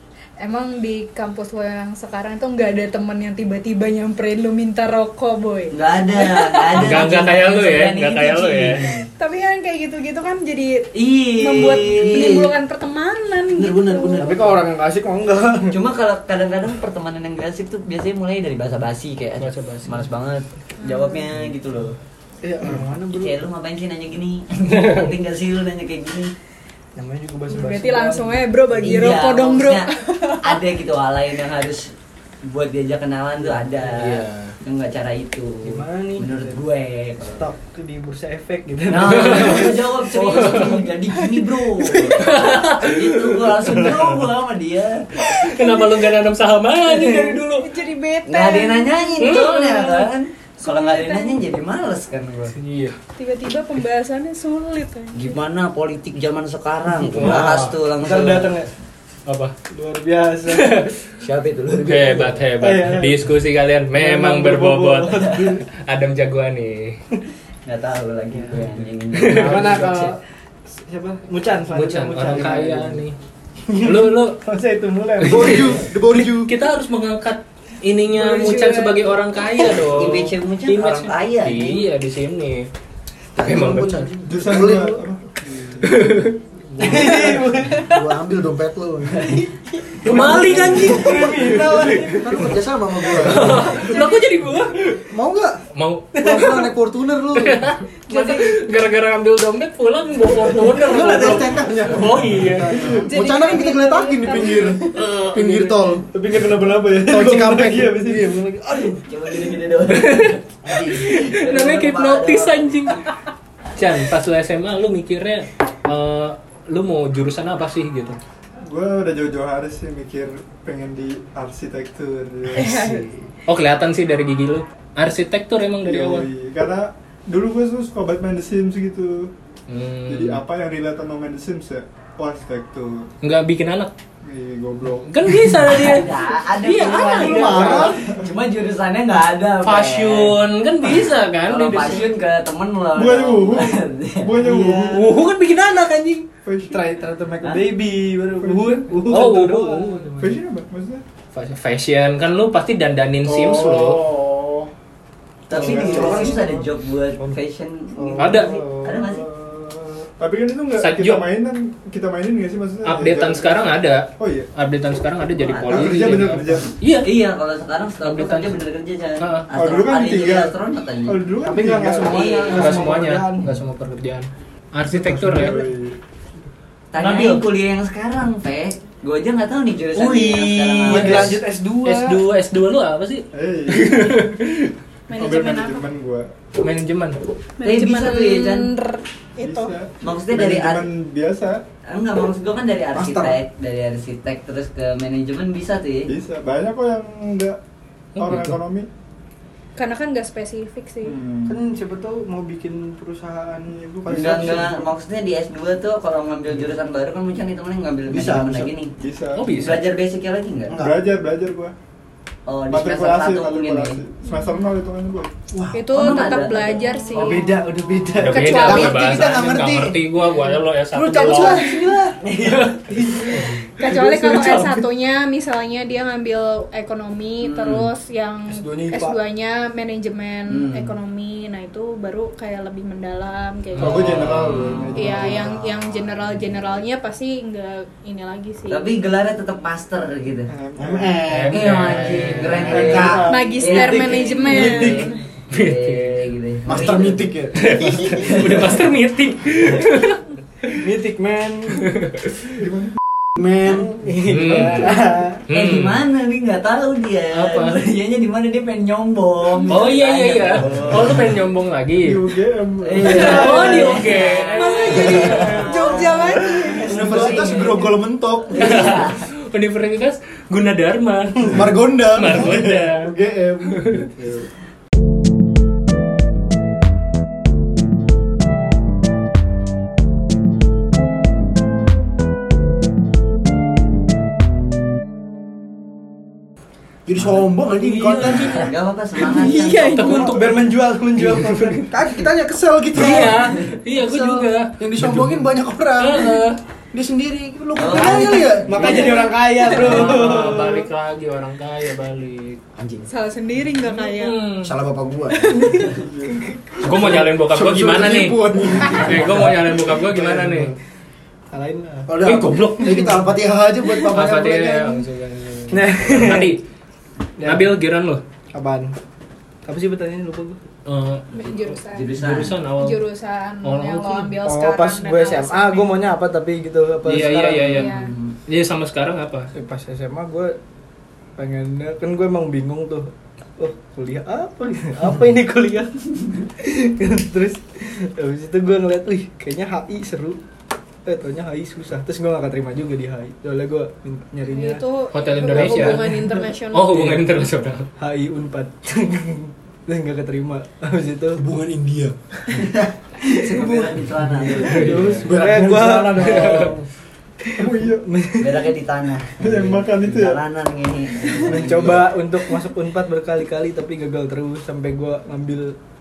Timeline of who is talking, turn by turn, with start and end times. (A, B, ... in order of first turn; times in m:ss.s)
0:00.4-0:06.9 A
0:05.7-0:09.0 B
0:06.8-0:09.0 C
0:09.2-0:14.2 A
0:10.9-0:12.4 B
0:11.9-0:12.5 D
0:13.6-0:14.6 D
0:14.2-0:15.8 E
0:15.7-0:22.0 B
0:19.4-0:20.1 C
0:20.8-0:21.2 A
0:22.4-0:23.4 E
0:22.8-0:26.3 B
0:27.0-0:28.4 E
0:27.5-0:30.6 A
0:28.8-0:29.9 B
0:30.4-0:31.9 B
0:32.4-0:37.5 B
0:33.9-0:34.6 C
0:35.6-0:36.6 E
0:37.3-0:40.8 E
0:38.9-0:45.1 B
0:39.1-0:39.7 C
0:40.3-0:40.8 C
0:42.2-0:44.1 C
0:45.3-0:47.7 C
0:45.4-0:46.0 A
0:47.0-0:49.6 A
0:48.3-0:52.6 B
0:49.2-0:50.1 C
0:50.6-0:51.4 A
0:52.5-0:53.0 C
0:53.2-0:55.4 A
0:55.1-0:58.6 B
0:57.0-0:57.8 C
0:57.2-0:58.7 E
0:59.3-0:59.5 C
0:59.7-1:00.8 E
1:00.5-1:00.9 C
1:01.2-1:02.4 B
1:01.8-1:07.0 C
1:02.6-1:03.2 E
1:03.9-1:05.6 E
1:05.2-1:05.5 B
1:07.7-1:10.1 B
1:08.3-1:08.6 E
1:09.1-1:10.0 C
1:09.2-1:13.0 E
1:11.7-1:13.2 C
1:13.7-1:15.9 E
1:13.8-1:14.4 C
1:15.2-1:22.7 C
1:15.2-1:16.5 D
1:18.1-1:19.2 A
1:19.9-1:21.9 B
1:23.4-1:25.0 D
1:23.4-1:24.1 C
1:24.2-1:26.2 F
1:25.9-1:26.4 C
1:26.8-1:29.5 D
1:26.8-1:28.0 E
1:26.9-1:27.2 C
1:29.2-1:32.5 E
1:30.0-1:33.9 D
1:30.0-1:32.4 C
1:33.0-1:35.0 C
1:33.3-1:33.7 E
1:33.7-1:34.3 A
1:35.1-1:37.8 D
1:35.8-1:36.7 C
1:37.3-1:42.9 C
1:38.1-1:38.6 A
1:40.8-1:46.1 D
1:42.4-1:43.0 E
1:42.6-1:43.1 F
1:42.9-1:45.0 A
1:45.4-1:48.5 E
1:47.0-1:49.0 D
1:49.0-1:50.4 B
1:49.9-1:50.4 C
1:50.6-1:51.2 D
1:50.9-1:53.1 C
1:51.2-1:52.9 B
1:53.8-1:58.2 C
1:58.6-2:03.1 F
2:02.5-2:03.1 A
2:03.5-2:06.3 C
2:05.8-2:09.3 F
2:09.7-2:10.4 C
2:10.1-2:13.1 F
2:13.2-2:13.9 C
2:14.2-2:15.4 F
2:15.1-2:17.9 C
2:15.7-2:24.5 B
2:17.2-2:18.0 D
2:17.8-2:18.3 F
2:19.6-2:22.1 C
2:22.9-2:25.1 F
2:24.5-2:25.0 E
2:24.9-2:26.3 C
2:26.4-2:27.0 F
2:26.6-2:30.4 E
2:28.4-2:29.0 F
2:29.1-2:30.1 C
2:30.2-2:31.0 F
2:31.3-2:34.0 C
2:33.2-2:34.7 F
2:35.5-2:39.3 B
2:35.5-2:36.5 F
2:35.5-2:36.4 D
2:38.2-2:44.5 F
2:38.2-2:38.6 C
2:40.8-2:41.3 C
2:42.8-2:47.3 C
2:45.3-2:46.3 B
2:45.7-2:46.7 F
2:47.0-2:51.2 B
2:48.0-2:48.6 C
2:49.2-2:49.5 C
2:49.5-2:52.3 F
2:51.4-2:53.6 E
2:52.0-2:52.8 B
2:52.5-2:55.7 C
2:54.9-2:56.0 F
2:56.9-3:01.4 B
2:57.0-2:57.4 C
3:00.0-3:04.7 C
3:00.9-3:02.2 E
3:00.9-3:01.4 D
3:03.3-3:04.4 F
3:05.1-3:05.9 A
3:05.1-3:06.3 F
3:06.6-3:07.2 C
3:07.6-3:09.7 A
3:07.6-3:08.7 B
3:09.4-3:11.6 F
3:10.0-3:10.9 B
3:11.9-3:16.1 B
3:12.9-3:13.4 D
3:16.1-3:17.6 F
3:18.2-3:18.9 F
3:18.2-3:18.6 C
3:19.8-3:21.2 A
3:21.0-3:21.6 F
3:21.5-3:24.7 E
3:23.8-3:24.8 F
3:24.1-3:28.9 B
3:28.1-3:28.7 D
3:29.0-3:29.5 F
3:29.4-3:29.8 C
3:29.5-3:30.8 B
3:30.7-3:31.0 D
3:30.8-3:31.7 F
3:32.5-3:34.0 B
3:32.7-3:35.3 F
3:35.5-3:36.5 D
3:35.7-3:37.6 A
3:35.9-3:37.5 B
3:37.2-3:38.8 E
3:38.2-3:41.8 C
3:38.3-3:39.2 A
3:38.4-3:40.0 D
3:40.9-3:42.2 D
3:42.2-3:44.1 E
3:42.4-3:43.5 C
3:43.8-3:54.4 A
3:44.0-3:44.8 C
3:47.4-3:47.9 B
3:48.5-3:49.2 E
3:50.5-3:50.9 B
3:53.8-3:54.9 C
3:53.8-3:55.7 F
3:54.6-3:55.0 B
3:55.0-3:58.9 A
3:58.7-4:00.5 B
4:00.5-4:01.2 F
4:00.8-4:03.3 D
4:01.3-4:03.0 C
4:01.5-4:07.3 B
4:02.9-4:03.3 F
4:03.3-4:05.1 A
4:03.8-4:05.1 E
4:05.5-4:06.2 C
4:06.7-4:08.2 D
4:07.6-4:10.2 C
4:08.1-4:08.8 B
4:10.8-4:11.8 E
4:11.9-4:12.3 C
4:12.6-4:12.9 F
4:13.4-4:14.1 D
4:14.0-4:15.4 E
4:14.2-4:16.1 C
4:15.5-4:21.2 B
4:17.3-4:17.8 C
4:19.6-4:22.3 C
4:22.0-4:23.5 F
4:22.8-4:27.9 B
4:23.0-4:25.6 C
4:23.2-4:23.8 E
4:23.2-4:23.9 A
4:24.4-4:27.6 A
4:26.8-4:29.0 D
4:28.5-4:29.2 B
4:28.6-4:33.1 C
4:31.4-4:34.0 D
4:33.7-4:34.0 C
4:47.1-4:48.7 D
4:47.6-4:48.7 C
4:48.5-4:50.4 B
4:49.2-4:52.1 E
4:49.9-4:50.6 C
4:50.0-4:50.5 D
4:51.2-4:51.8 C
4:51.9-4:59.3 D
4:52.9-4:56.6 C
4:57.8-4:59.1 B
4:58.0-5:00.9 E
4:58.8-5:02.6 C
5:02.8-5:03.1 D
5:03.1-5:04.4 A
5:03.8-5:04.7 C
5:04.6-5:05.9 D
5:05.6-5:06.6 E
5:05.9-5:07.2 F
5:06.8-5:10.7 C
5:06.9-5:09.6 D
5:08.9-5:09.2 F
5:09.9-5:10.6 E
5:10.1-5:10.5 D
5:11.5-5:12.2 E
5:12.1-5:15.0 D
5:12.2-5:13.3 C
5:14.0-5:16.6 C
5:15.7-5:16.6 E
5:17.4-5:17.8 E
5:17.4-5:18.2 C
5:18.5-5:19.0 E
5:19.6-5:20.6 E
5:20.9-5:21.4 C
5:21.3-5:22.1 A
5:21.9-5:22.6 B
5:22.2-5:23.0 C
5:22.7-5:26.0 A
5:23.6-5:24.4 C
5:24.4-5:27.8 E
5:27.0-5:28.0 C
5:27.7-5:28.1 A
5:27.7-5:28.4 B
5:28.5-5:29.5 C
5:29.5-5:30.6 E
5:31.4-5:36.0 E
5:36.6-5:40.4 E
5:41.0-5:44.8 E
5:44.5-5:47.2 A
5:45.1-5:47.9 C
5:45.5-5:46.3 E
5:46.9-5:47.2 E
5:48.0-5:51.4 E
5:51.4-5:52.9 D
5:53.4-5:55.3 B
5:53.5-5:56.8 E
5:54.6-5:55.3 C
5:55.2-5:56.8 D
5:56.2-5:56.7 C
5:57.4-5:58.7 E
5:57.6-5:58.0 F
5:58.4-6:02.1 B
5:59.4-6:00.4 F
6:01.5-6:05.8 E
6:01.5-6:01.8 F